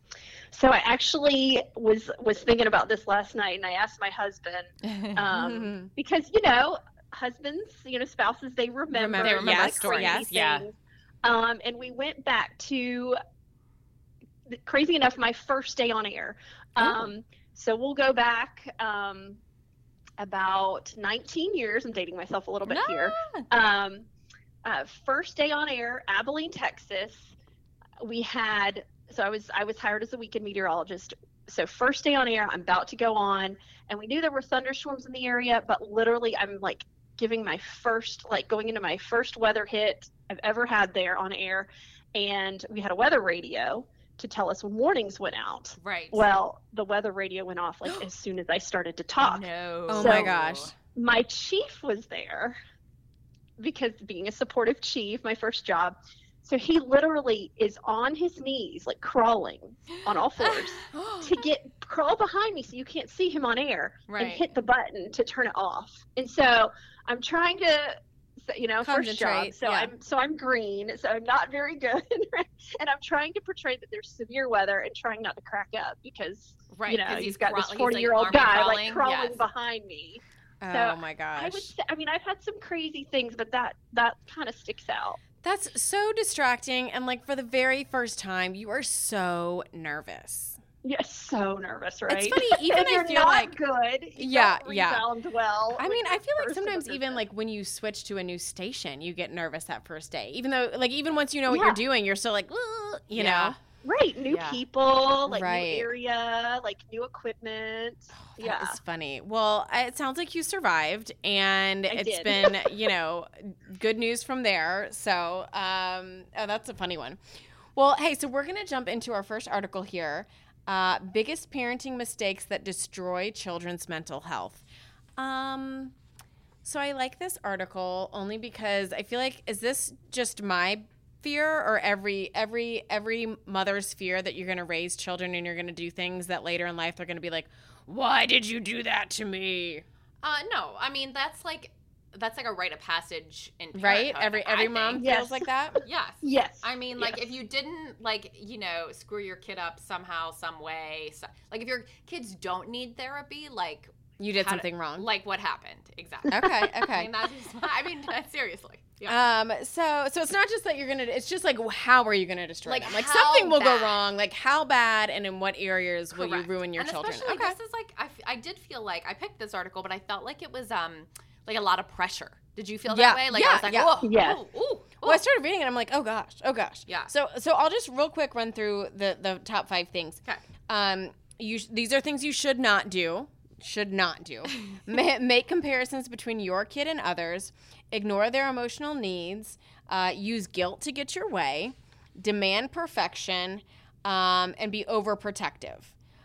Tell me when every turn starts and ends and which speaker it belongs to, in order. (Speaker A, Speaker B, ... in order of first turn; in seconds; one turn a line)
Speaker A: 0.5-13.2
Speaker B: 4.8-5.2
Speaker C: 5.3-5.9
Speaker C: 8.9-10.3
Speaker B: 9.2-10.7
Speaker A: 14.5-19.4
Speaker A: 20.2-24.1
Speaker B: 22.6-23.4
Speaker A: 24.6-27.3
Speaker A: 28.0-50.3
Speaker B: 45.8-46.2
Speaker B: 49.2-50.7
Speaker C: 49.9-50.7
Speaker A: 50.9-52.6
Speaker A: 53.6-85.2
Speaker B: 60.4-61.2
Speaker B: 64.1-64.4
Speaker C: 68.8-69.9
Speaker B: 76.7-79.4
Speaker C: 80.6-81.7
Speaker C: 85.4-90.6
Speaker A: 90.8-97.2
Speaker C: 92.1-93.6
Speaker C: 94.2-95.0
Speaker C: 95.7-103.6
Speaker A: 101.5-101.8
Speaker B: 103.1-103.5
Speaker A: 103.8-108.8
Speaker B: 104.3-104.6
Speaker C: 105.3-105.9
Speaker C: 108.2-117.2
Speaker A: 111.9-112.8
Speaker C: 117.7-124.6
Speaker C: 125.2-125.9
Speaker C: 126.6-139.8
Speaker B: 140.2-145.0
Speaker C: 143.7-145.8
Speaker A: 145.0-145.4
Speaker B: 145.8-159.2
Speaker A: 146.2-147.2
Speaker C: 154.2-155.1
Speaker C: 156.3-157.1
Speaker C: 159.1-167.6
Speaker B: 162.6-164.0
Speaker B: 166.1-175.2
Speaker C: 172.9-173.9
Speaker A: 174.0-174.4
Speaker C: 175.0-195.9
Speaker B: 176.9-177.1